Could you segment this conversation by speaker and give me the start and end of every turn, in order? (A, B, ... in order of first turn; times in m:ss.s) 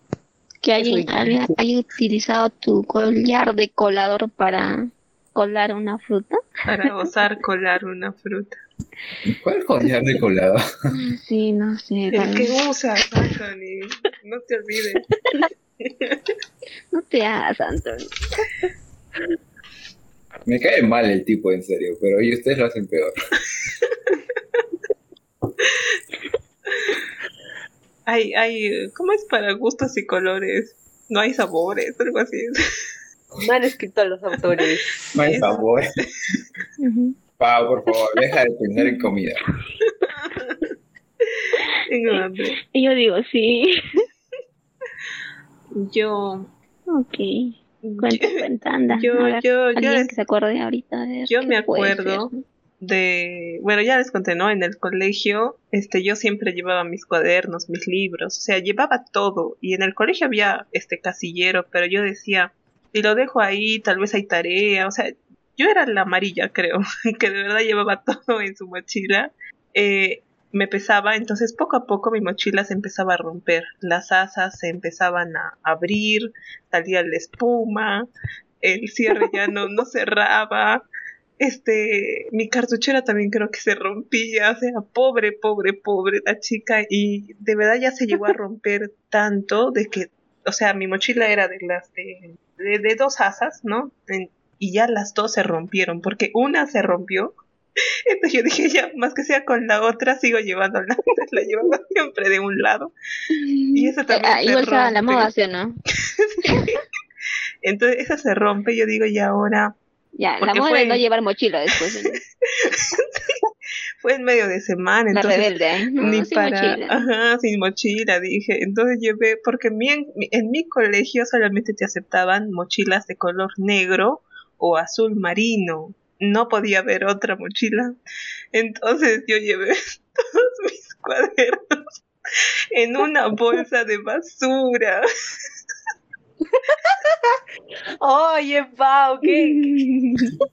0:00.6-0:06.4 A
0:00.8-0:01.6 B
0:06.7-0:08.6 C
0:09.2-0:10.6 D
0:10.9-0:12.5 A
0:12.1-0:15.1 C
0:15.8-0:16.2 C
0:16.9-0:18.1 A
0:20.4-0:23.1 D
0:26.7-0:27.0 C
0:28.1-0:32.6 C
0:33.4-0:35.1 B
0:35.1-0:35.9 D
0:35.2-0:35.6 C
0:36.8-0:37.2 A
0:37.4-0:39.4 D
0:40.0-0:40.6 C
0:41.2-0:42.6 C
0:42.1-0:43.7 A
0:45.7-0:46.5 C
0:46.9-0:52.3 A
0:47.8-0:50.1 C
0:51.3-0:52.3 C
0:52.8-1:18.1 C
1:18.6-1:20.9 C
1:21.4-1:37.3 C
1:38.1-1:42.9 C
1:43.3-1:45.8 A
1:43.7-1:45.3 C
1:46.0-1:46.8 C
1:47.6-1:49.8 C
1:50.2-1:52.2 A
1:50.4-1:51.0 C
1:51.7-1:53.5 C
1:54.0-2:08.0 C
1:55.1-1:57.0 A
2:08.5-2:11.8 C
2:12.7-2:15.0 C
2:16.5-2:17.4 B
2:18.0-2:19.8 B
2:19.2-2:20.3 A